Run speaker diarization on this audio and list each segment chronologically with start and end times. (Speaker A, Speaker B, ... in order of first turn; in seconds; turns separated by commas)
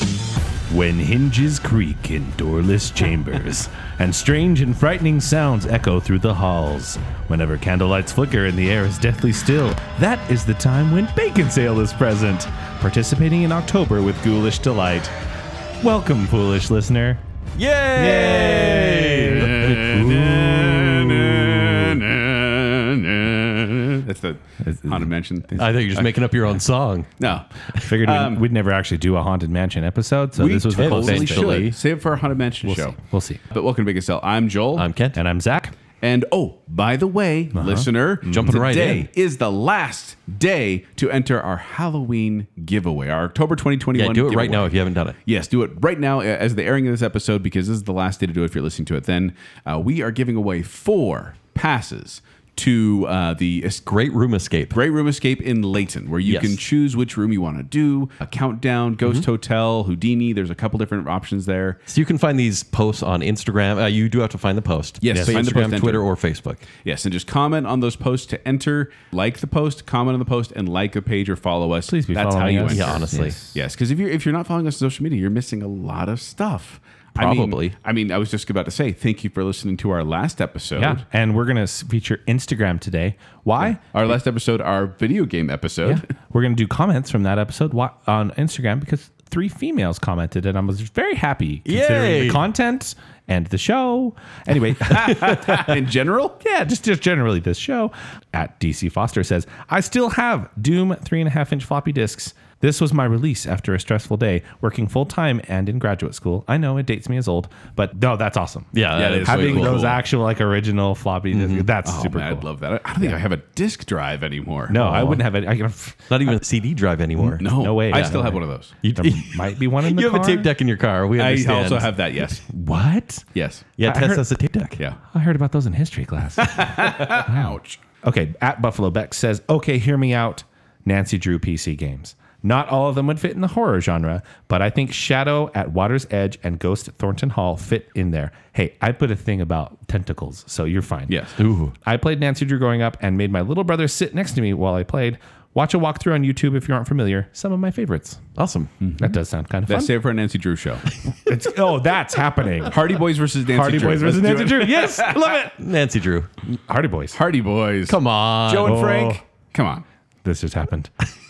Speaker A: 0.7-15.1, Speaker A: 15.8-17.2, Speaker B: 17.6-20.9, Speaker A: 17.9-21.8, Speaker C: 18.2-26.1, Speaker A: 24.6-25.1, Speaker B: 25.6-27.1, Speaker C: 27.2-27.4, Speaker A: 27.8-31.7, Speaker C: 28.0-28.4, Speaker C: 30.4-33.0, Speaker B: 30.8-31.7, Speaker A: 32.6-33.4, Speaker C: 33.5-34.9, Speaker B: 34.8-35.2, Speaker A: 35.1-35.7, Speaker C: 36.0-53.8, Speaker A: 37.5-38.5, Speaker B: 38.3-39.1, Speaker B: 43.9-45.1, Speaker B: 53.9-54.8, Speaker C: 54.7-61.8, Speaker B: 56.2-56.6, Speaker B: 61.9-66.6, Speaker C: 65.0-66.1, Speaker C: 66.8-81.0, Speaker A: 71.9-73.6, Speaker B: 72.7-73.4, Speaker B: 77.2-77.7, Speaker A: 80.8-83.8, Speaker C: 83.9-86.0, Speaker A: 85.8-95.6, Speaker B: 91.7-92.4, Speaker C: 94.8-96.4, Speaker A: 96.4-112.5, Speaker B: 108.7-109.9, Speaker C: 108.9-110.0, Speaker B: 111.3-111.7, Speaker C: 111.8-115.0, Speaker A: 114.7-116.1, Speaker B: 114.8-115.2, Speaker B: 116.1-121.9, Speaker C: 117.2-118.7, Speaker A: 117.3-118.4, Speaker A: 118.9-120.5, Speaker C: 121.1-122.4, Speaker A: 122.5-123.2, Speaker C: 123.3-123.7, Speaker B: 123.8-124.8, Speaker A: 123.8-124.3, Speaker A: 125.1-141.2, Speaker C: 126.4-127.8, Speaker C: 141.1-141.3, Speaker B: 141.4-141.7, Speaker A: 141.8-148.2, Speaker B: 148.3-148.7, Speaker C: 148.8-149.1, Speaker A: 149.0-149.9, Speaker C: 149.7-150.8, Speaker A: 151.2-152.8, Speaker C: 152.7-155.1, Speaker A: 153.5-155.5, Speaker B: 155.0-156.4, Speaker A: 156.7-157.2, Speaker C: 157.1-159.8, Speaker B: 157.9-158.8, Speaker A: 158.6-159.2, Speaker A: 160.2-161.1